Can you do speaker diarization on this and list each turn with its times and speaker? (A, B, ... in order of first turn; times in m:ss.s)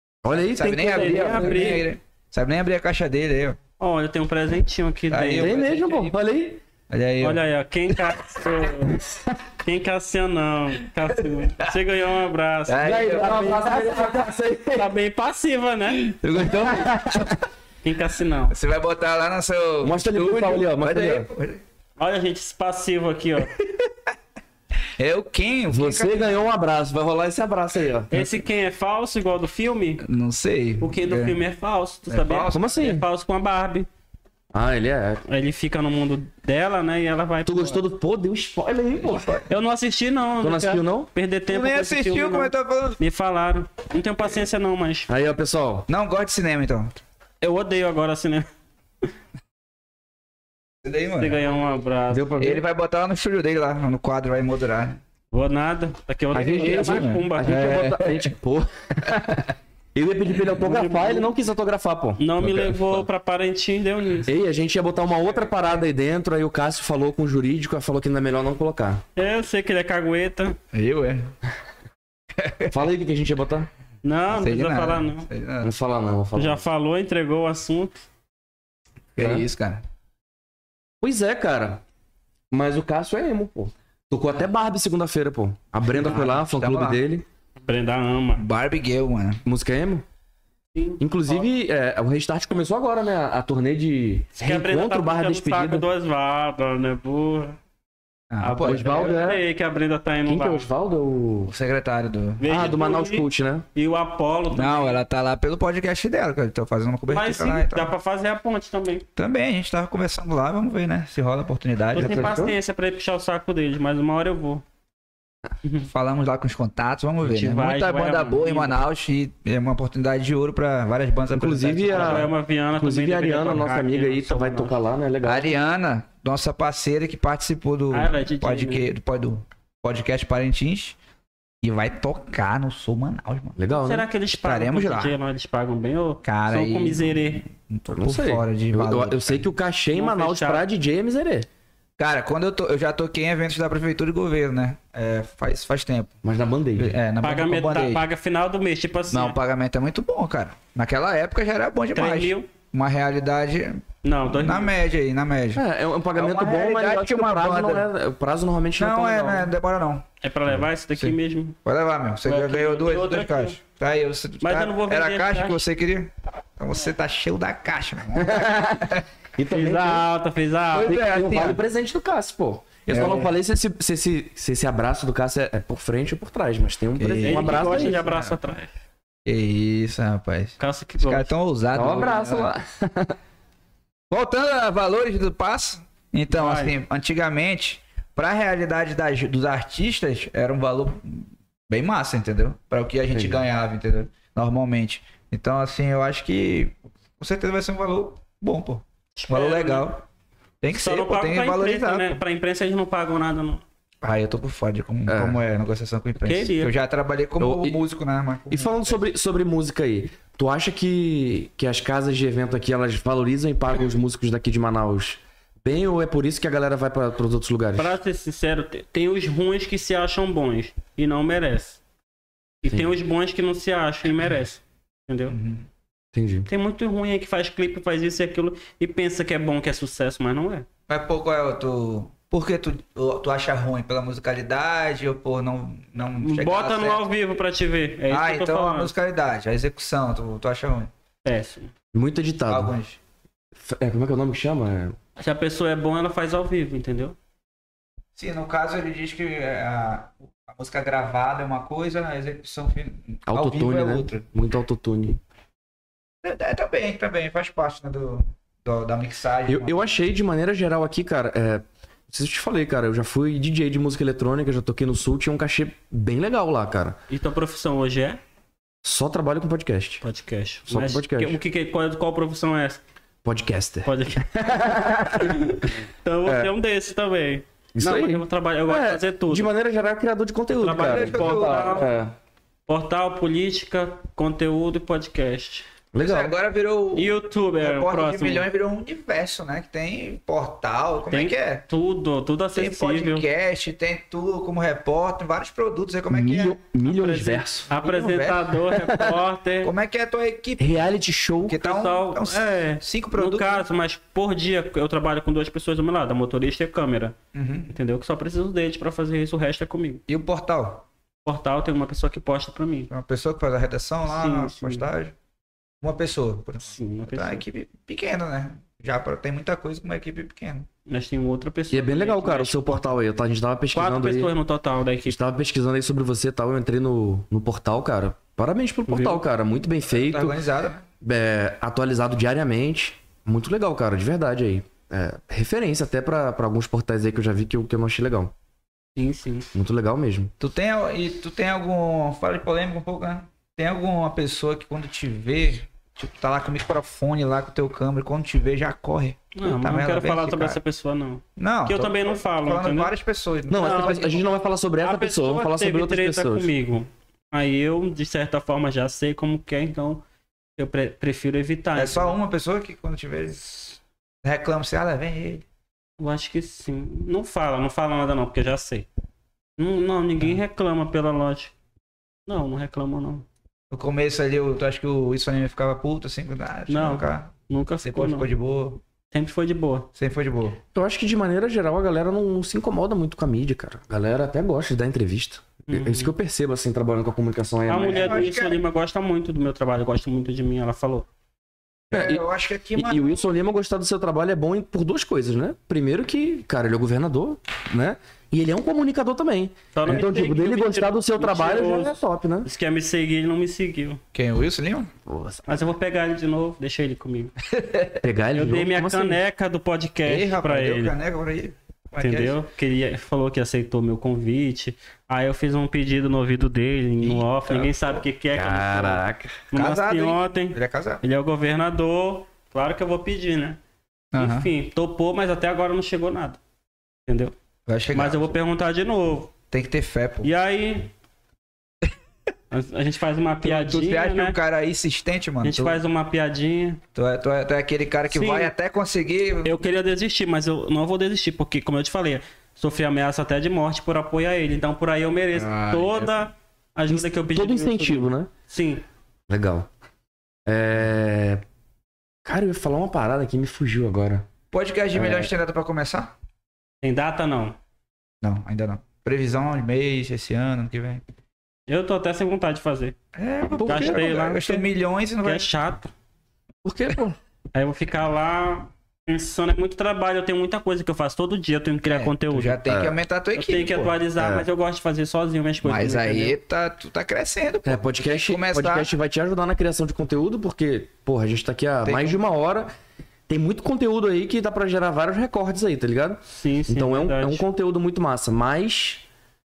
0:00.2-0:01.8 A
0:00.3-0:03.6 B
0:00.9-0:01.9 C
0:03.8-0:05.6 C
0:05.1-0:06.2 B
0:05.4-0:06.6 A
0:06.9-0:08.1 B
0:07.2-0:09.0 C
0:09.0-0:09.3 A
0:09.6-0:13.5 C
0:12.7-0:14.2 B
0:12.8-0:14.9 A
0:14.8-0:16.2 C
0:16.2-0:17.4 B
0:16.4-0:17.4 A
0:17.8-0:18.6 C
0:18.5-0:21.6 B
0:19.8-0:21.3 A
0:22.0-0:23.5 C
0:25.0-0:26.4 B
0:25.7-0:28.1 A
0:28.1-0:30.0 C
0:30.0-0:31.4 B
0:30.8-0:33.9 C
0:32.1-0:32.9 B
0:32.5-0:33.0 A
0:34.5-0:35.2 A
0:35.3-0:37.8 C
0:37.5-0:39.4 A
0:39.0-0:39.5 B
0:39.5-0:45.1 C
0:40.4-0:41.1 A
0:41.5-0:43.0 B
0:45.1-0:45.9 A
0:45.9-0:46.9 B
0:47.4-0:48.5 C
0:50.8-0:51.4 B
0:51.1-0:52.3 C
0:52.1-0:52.6 A
0:52.4-0:55.0 B
0:55.3-0:57.8 C
0:56.3-1:02.8 A
0:56.6-0:58.3 B
1:00.5-1:01.3 C
1:02.2-1:04.3 C
1:04.3-1:09.0 A
1:09.2-1:10.6 C
1:10.7-1:11.3 B
1:12.4-1:12.8 B
1:12.7-1:13.7 A
1:14.0-1:15.3 C
1:14.3-1:15.7 B
1:15.6-1:16.6 A
1:16.4-1:18.0 C
1:19.2-1:19.8 B
1:19.2-1:19.5 A
1:21.0-1:21.8 A
1:22.5-1:27.3 A
1:25.9-1:27.0 B
1:27.6-1:28.4 C
1:28.4-1:29.4 B
1:29.4-1:30.0 A
1:30.7-1:31.4 C
1:31.0-1:35.9 A
1:34.4-1:37.6 C
1:38.3-1:39.2 B
1:38.4-1:40.7 C
1:38.6-1:39.4 A
1:40.3-1:41.5 A
1:41.5-1:42.7 B
1:42.4-1:45.0 C
1:42.4-1:43.7 A
1:44.5-1:47.9 B
1:47.1-1:49.0 C
1:49.2-1:52.4 B
1:52.0-1:54.6 C
1:52.0-1:52.6 A
1:55.9-2:02.3 B
1:57.2-1:58.8 C
2:01.3-2:05.6 A
2:01.9-2:04.8 C
2:05.2-2:11.0 B
2:07.9-2:08.8 C
2:11.6-2:13.6 B
2:13.6-2:14.1 A
2:13.7-2:17.4 C
2:14.4-2:15.2 B
2:16.2-2:19.5 B
2:17.9-2:21.5 A
2:19.9-2:20.7 C
2:22.0-2:26.1 B
2:26.2-2:27.0 A
2:26.8-2:28.0 B
2:27.2-2:29.4 C
2:29.1-2:35.6 B
2:31.9-2:32.5 C
2:34.0-2:34.7 C
2:35.6-2:39.5 A
2:36.2-2:37.9 B
2:38.8-2:40.1 B
2:40.2-2:41.6 C
2:40.9-2:49.0 B
2:42.2-2:43.6 C
2:44.4-2:45.6 C
2:48.2-2:50.1 A
2:49.5-2:51.0 C
2:50.7-2:51.6 B
2:50.8-2:58.0 A
2:52.9-2:53.3 B
2:57.0-2:58.4 B
2:57.2-2:58.7 C
2:59.3-3:02.5 B
3:00.6-3:01.3 C
3:01.7-3:03.2 A
3:04.1-3:20.1 B
3:06.3-3:06.7 C
3:19.2-3:19.9 C
3:20.6-3:22.2 B
3:20.7-3:23.6 C
3:24.0-3:29.0 B
3:25.1-3:25.4 A
3:26.2-3:26.7 C
3:27.4-3:27.8 A
3:28.5-3:38.0 A
3:37.8-3:41.8 C
3:42.6-3:45.4 C
3:45.3-3:45.7 B
3:46.1-3:46.5 A
3:46.5-3:50.7 C
3:50.9-3:57.0 B
3:56.2-3:58.9 C
3:58.1-4:00.9 B
4:01.2-4:01.7 C
4:01.9-4:02.8 A
4:02.5-4:03.0 B
4:03.6-4:05.0 A
4:05.2-4:07.2 C
4:08.2-4:14.3 B
4:13.3-4:15.2 A
4:16.2-4:20.0 B
4:19.5-4:27.0 A
4:27.1-4:28.2 C
4:28.8-4:30.0 A
4:30.0-4:32.8 C
4:30.7-4:31.4 A
4:33.2-4:35.6 A
4:33.9-4:34.3 C
4:35.2-4:39.5 C
4:36.2-4:36.5 A
4:37.8-4:42.2 A
4:40.6-4:41.9 C
4:40.8-4:41.9 B
4:42.7-4:45.7 C
4:45.9-4:46.4 A
4:46.0-4:51.6 B
4:47.0-4:48.5 C
4:51.1-4:53.3 C
4:52.6-4:56.6 B
4:56.1-4:57.7 A
4:56.8-4:59.7 C
4:57.7-4:58.5 B
4:58.7-4:59.2 A
4:59.6-5:00.8 B
5:00.6-5:01.6 A
5:01.4-5:03.6 B
5:01.6-5:07.2 C
5:07.3-5:07.7 B
5:07.7-5:10.0 C
5:10.1-5:10.8 B
5:11.2-5:12.9 C
5:12.9-5:15.1 B
5:14.1-5:14.9 C
5:15.8-5:20.7 B
5:16.7-5:17.4 C
5:20.9-5:22.9 C
5:21.7-5:24.3 A
5:23.7-5:25.2 C
5:25.1-5:30.4 A
5:28.9-5:29.2 C
5:29.9-5:30.8 B
5:31.0-5:38.3 A
5:39.0-5:39.5 C
5:39.5-5:40.3 A
5:40.4-5:50.6 B
5:49.3-5:52.9 C
5:51.4-5:54.2 B
5:53.5-5:56.5 A
5:53.6-5:54.0 C
5:54.8-6:00.0 C
6:00.6-6:02.2 C
6:01.8-6:05.4 B
6:06.0-6:08.9 C
6:09.6-6:11.5 C
6:12.3-6:13.3 C
6:13.7-6:17.3 B
6:16.7-6:18.3 C
6:17.8-6:18.8 B
6:19.1-6:19.9 C
6:20.0-6:20.6 B
6:20.7-6:28.3 A
6:25.7-6:26.1 C
6:27.7-6:31.1 C
6:27.8-6:28.6 B
6:31.9-6:32.2 A
6:31.9-6:33.2 B
6:32.8-6:42.5 A
6:39.7-6:44.0 C
6:44.1-6:44.9 B
6:45.1-6:45.7 A
6:45.5-6:47.3 C
6:47.5-6:48.0 B
6:48.0-6:49.2 A
6:48.3-6:51.0 C
6:50.1-6:52.4 B
6:52.0-7:03.6 C
6:57.0-6:58.0 B
6:58.3-6:59.4 A
6:59.5-7:01.0 B
7:04.1-7:04.5 B
7:04.2-7:06.4 C
7:07.1-7:07.3 C
7:07.7-7:08.4 B
7:07.9-7:09.3 C
7:09.5-7:10.3 B
7:10.2-7:10.9 C
7:12.5-7:14.4 C
7:13.4-7:15.8 B
7:15.4-7:16.8 C
7:17.0-7:19.6 B
7:18.1-7:18.5 C
7:19.4-7:28.8 C
7:25.3-7:26.2 B
7:26.9-7:28.3 A
7:29.3-7:29.7 A
7:30.5-7:31.4 A
7:32.2-7:34.3 A
7:34.5-7:36.1 B
7:35.0-7:35.3 A
7:36.8-7:37.6 C
7:38.2-7:41.0 B
7:41.7-7:43.0 C
7:43.2-7:45.5 B
7:43.6-7:44.1 A
7:43.6-7:44.7 C
7:45.2-7:45.9 C
7:46.6-7:47.2 A
7:47.5-7:52.6 C
7:51.8-7:54.0 B
7:52.7-7:53.0 A
7:53.4-7:56.4 C
7:54.2-7:54.5 A
7:55.6-7:58.9 B
7:57.6-8:02.7 A
8:01.8-8:02.2 B
8:03.3-8:09.0 A
8:06.3-8:07.5 C